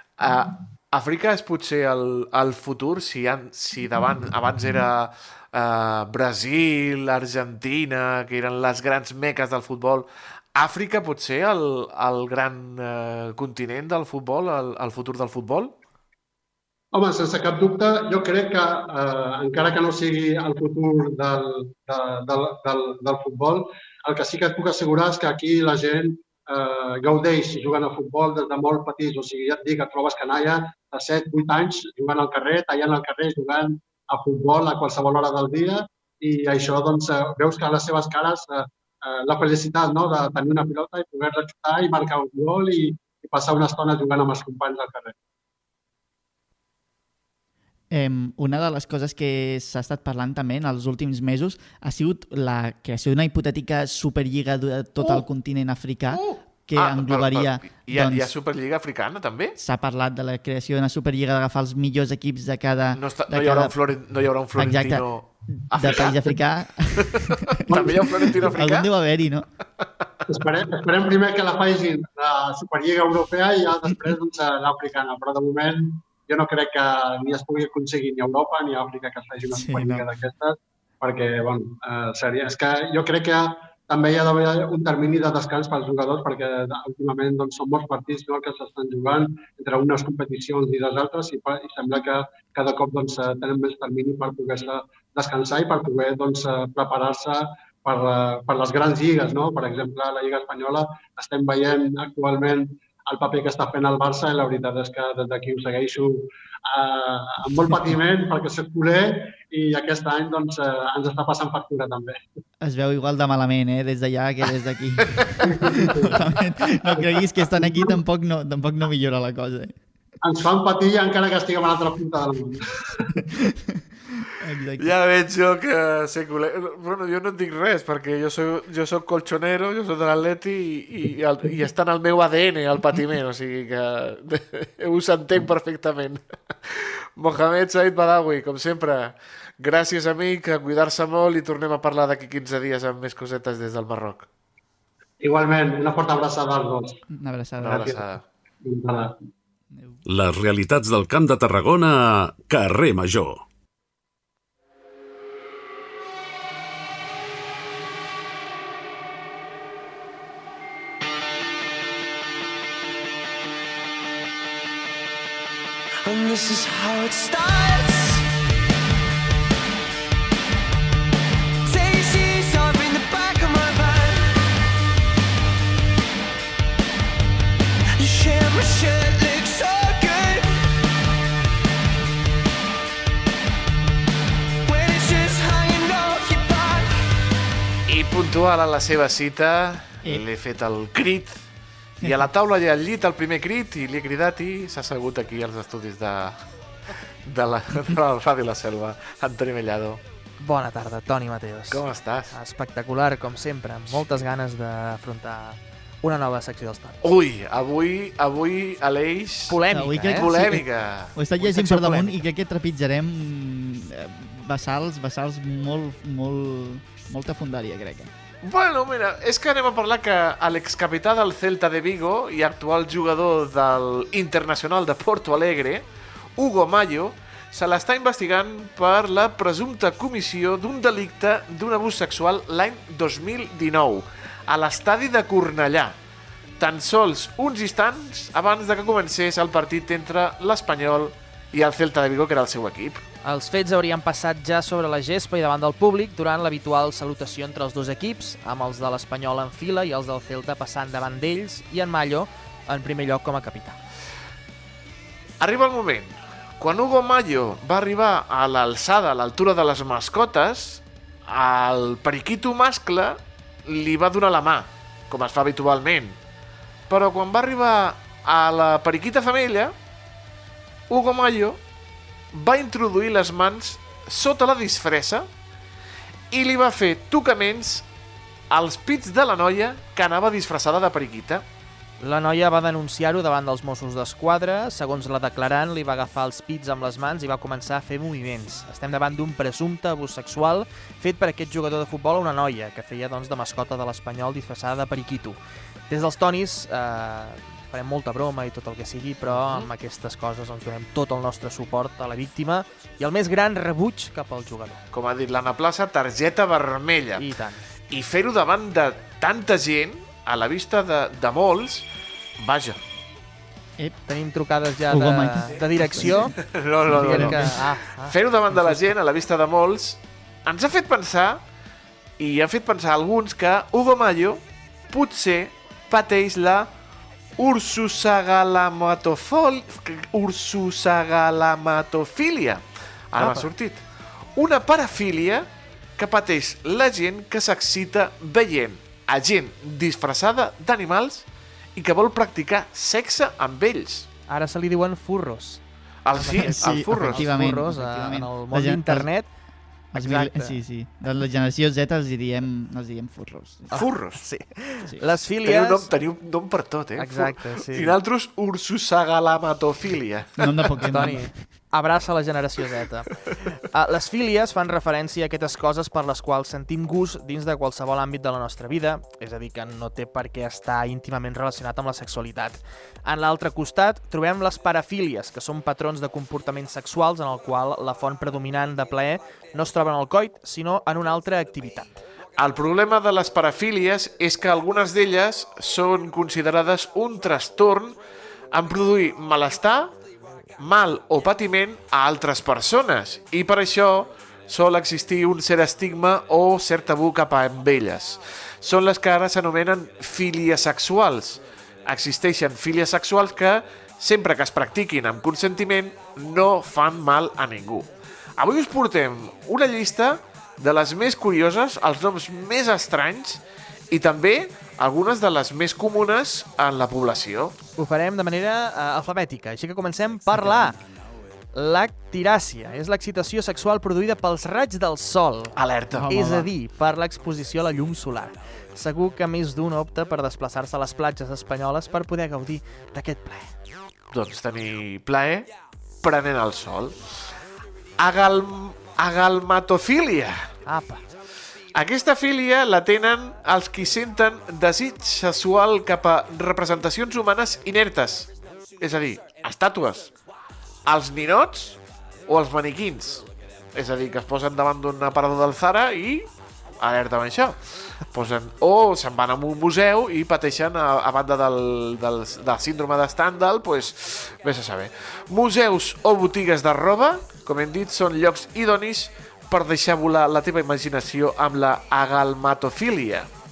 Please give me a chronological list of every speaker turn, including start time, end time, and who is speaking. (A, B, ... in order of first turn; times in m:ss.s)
0:00.2-0:15.7 A
0:16.9-0:45.1 B
0:47.9-0:58.3 C
0:55.0-0:55.2 A
0:56.1-0:59.6 A
0:59.6-1:03.7 C
1:02.9-1:06.4 A
1:04.6-1:09.5 C
1:07.7-1:08.9 A
1:10.3-1:52.2 B
1:19.5-1:20.0 C
1:52.6-1:59.8 C
1:55.4-1:57.9 B
2:00.2-2:02.6 B
2:03.1-2:04.9 C
2:04.8-2:24.3 A
2:25.2-2:27.0 B
2:27.1-2:28.0 C
2:27.6-2:28.2 A
2:28.6-2:29.2 B
2:29.7-2:30.0 C
2:30.0-2:33.4 D
2:46.0-2:48.2 E
2:51.6-2:54.4 E
2:58.0-3:00.4 E
3:04.6-3:06.9 E
3:07.9-3:11.4 A
3:12.0-3:12.3 C
3:12.0-3:16.4 A
3:17.2-3:20.0 A
3:20.4-3:27.0 F
3:21.7-3:22.3 A
3:23.9-3:24.2 A
3:27.0-3:32.0 A
3:29.5-3:30.5 F
3:29.7-3:38.1 C
3:38.4-3:45.8 A
3:46.4-3:55.9 A
3:56.6-4:03.0 A
4:03.2-4:13.8 F
4:15.4-4:26.2 A
4:26.9-4:29.7 A
4:30.9-4:31.6 A
4:32.3-4:35.3 A
4:36.3-4:37.8 A
4:38.5-4:41.4 A
4:42.0-4:55.4 F
4:55.9-5:04.8 F
4:59.3-4:59.7 A
5:04.9-5:07.3 A
5:07.2-5:07.7 F
5:07.9-5:11.8 A
5:12.4-5:12.8 A
5:14.0-5:18.8 F
5:14.9-5:16.3 C
5:16.4-5:21.4 A
5:16.9-5:17.5 C
5:22.2-5:26.7 A
5:27.4-5:33.8 A
5:33.2-5:33.5 F
5:34.3-5:41.2 A
5:41.8-5:44.1 A
5:44.3-5:45.6 F
5:46.0-5:47.5 A
5:46.1-5:49.3 F
5:46.3-5:49.1 C
5:49.9-5:53.7 C
5:49.9-5:50.6 F
5:53.7-5:55.9 F
5:53.7-5:54.2 A
5:55.4-6:00.9 A
5:57.0-5:58.0 F
6:00.4-6:01.3 C
6:00.9-6:03.1 F
6:03.7-6:22.0 F
6:22.4-6:28.0 A
6:28.5-6:29.9 A
6:30.6-6:47.9 A
6:48.4-6:57.6 A
6:57.8-7:00.8 F
7:01.5-7:05.5 F
7:05.5-7:06.5 A
7:06.0-7:06.4 C
7:06.1-7:13.5 F
7:14.1-7:15.5 A
7:16.0-7:17.2 A
7:18.0-7:20.5 A
7:20.6-7:21.0 F
7:21.7-7:30.1 A
7:30.8-7:36.3 A
7:36.8-7:53.3 A